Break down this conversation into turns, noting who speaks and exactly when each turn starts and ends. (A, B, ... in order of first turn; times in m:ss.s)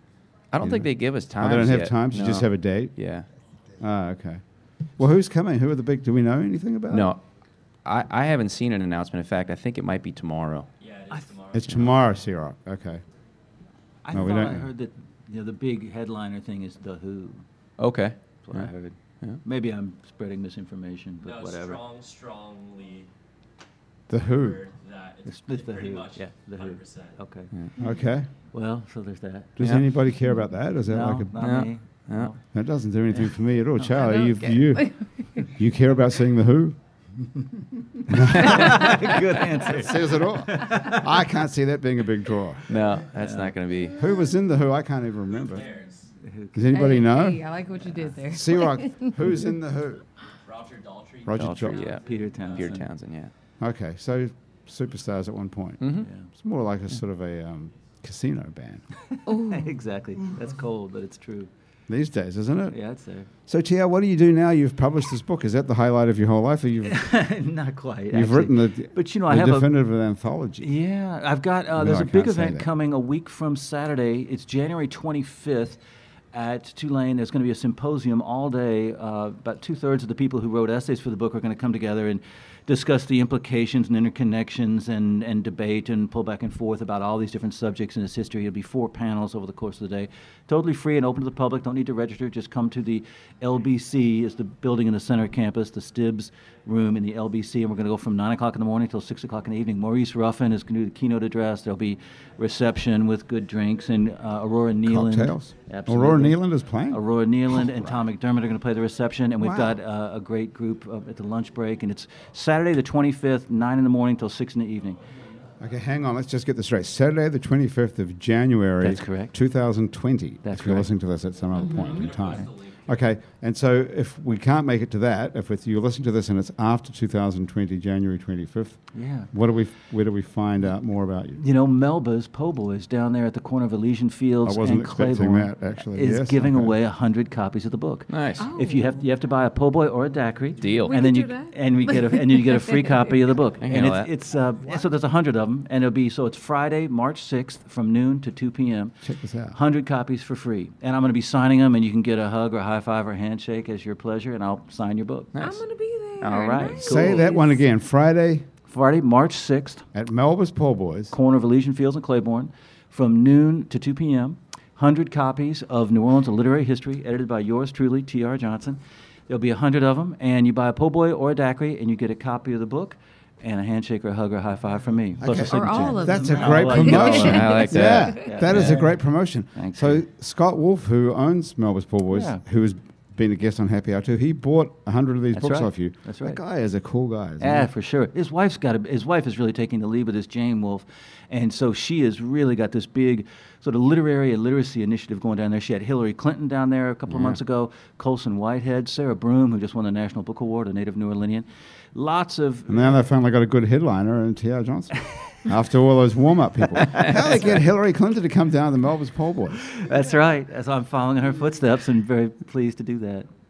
0:00.5-0:03.3 A
0:00.6-0:03.0 B
0:03.8-0:04.4 B
0:05.0-0:07.1 B
0:06.9-0:07.2 A
0:07.8-0:10.7 A
0:10.8-0:12.0 C
0:11.1-0:11.4 D
0:11.5-0:13.0 B
0:14.0-0:17.4 D
0:14.1-0:14.6 B
0:17.8-0:18.7 A
0:18.4-0:21.8 D
0:21.2-0:23.1 C
0:24.1-0:24.6 B
0:24.2-0:27.2 C
0:25.2-0:27.5 D
0:27.8-0:28.3 B
0:28.5-0:29.6 D
0:29.6-0:31.3 B
0:29.6-0:29.9 A
0:30.9-0:32.4 D
0:31.4-0:32.3 A
0:32.5-0:36.8 B
0:33.8-0:34.3 D
0:34.2-0:35.3 E
0:38.1-0:39.0 B
0:38.2-0:41.2 D
0:39.6-0:42.6 B
0:42.7-0:44.0 A
0:42.7-0:43.5 D
0:43.9-0:45.7 B
0:45.3-0:46.1 C
0:46.2-0:46.5 D
0:46.5-0:47.5 B
0:46.7-0:49.2 E
0:48.3-0:50.0 B
0:50.4-0:52.9 C
0:51.3-0:51.9 B
0:51.3-0:53.3 A
0:52.0-0:52.9 D
0:53.6-0:58.8 B
0:55.8-0:56.1 A
0:56.0-0:56.3 D
0:59.3-0:59.7 E
0:59.4-1:01.5 D
1:01.9-1:02.8 B
1:02.7-1:03.3 D
1:03.5-1:07.1 B
1:06.8-1:09.7 D
1:08.1-1:10.7 B
1:10.6-1:15.8 D
1:11.8-1:12.7 B
1:16.3-1:55.0 D
1:44.8-1:48.0 B
1:49.4-1:49.8 B
1:55.6-2:11.4 B
1:58.8-1:59.3 D
2:00.4-2:00.9 D
2:01.6-2:03.0 C
2:01.7-2:02.5 D
2:08.9-2:09.3 D
2:11.4-2:29.0 D
2:14.4-2:16.7 B
2:18.1-2:18.5 A
2:18.4-2:19.0 E
2:20.6-2:21.0 A
2:20.9-2:23.1 E
2:23.6-2:24.1 A
2:29.0-2:29.6 B
2:29.5-2:35.4 D
2:35.4-2:37.6 E
2:36.2-2:37.3 D
2:36.8-2:38.5 B
2:38.7-2:39.8 D
2:39.9-2:41.1 B
2:41.1-2:59.0 D
2:55.2-3:07.7 B
2:55.3-2:58.1 E
2:56.9-2:58.8 A
2:59.5-3:00.0 D
3:02.1-3:02.4 D
3:05.3-3:06.4 D
3:07.4-3:23.0 D
3:22.7-3:29.7 B
3:26.8-3:27.6 D
3:29.7-3:33.3 D